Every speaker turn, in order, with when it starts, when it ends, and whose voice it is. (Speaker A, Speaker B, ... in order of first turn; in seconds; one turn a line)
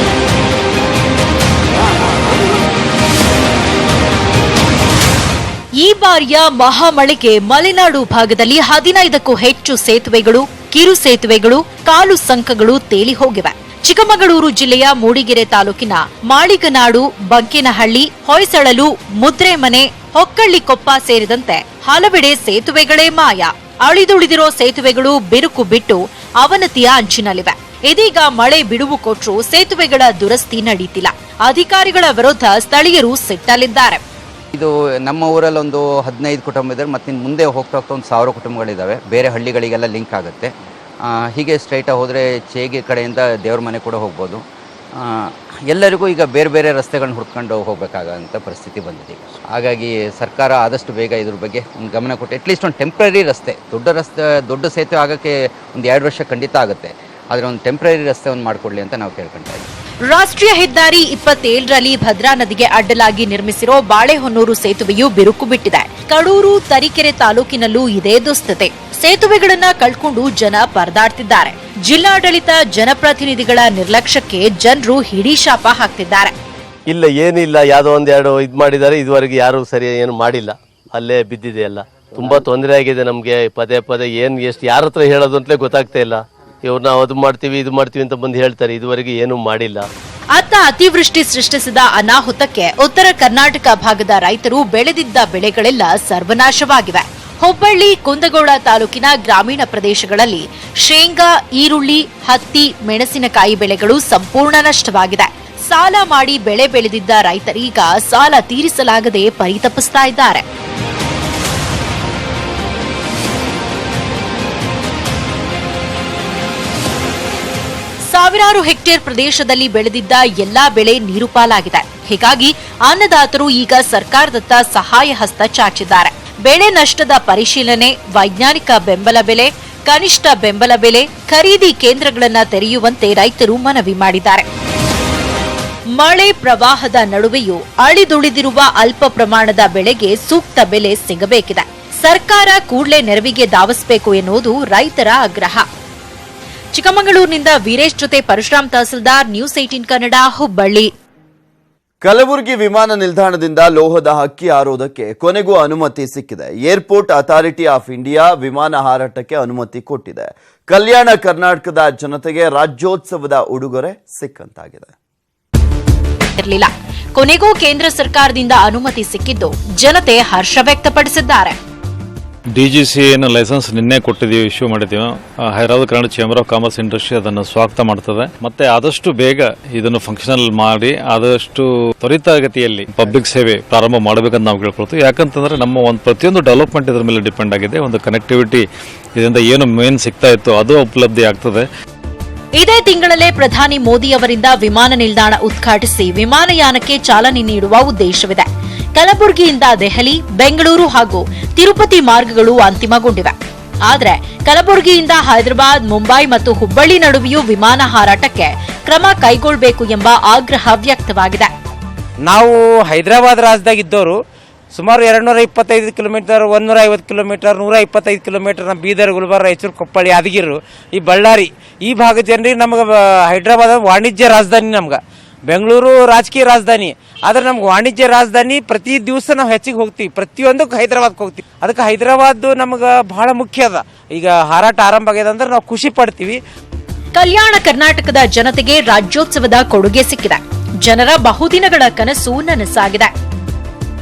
Speaker A: 5.8-34.0
Speaker B: 34.5-40.5
Speaker B: 41.1-44.4
Speaker B: 45.0-59.7
Speaker A: 60.1-76.3
Speaker C: 76.9-89.8
Speaker A: 90.3-110.4
Speaker A: 118.0-134.5
Speaker A: 136.0-145.7
Speaker A: 146.7-150.9
Speaker D: 152.0-164.9
Speaker A: 166.3-171.6
Speaker E: 172.6-191.6
Speaker A: 192.6-203.3
Speaker A: 203.9-211.5
Speaker F: 212.3-214.2
Speaker F: 214.8-236.4
Speaker A: 237.1-243.1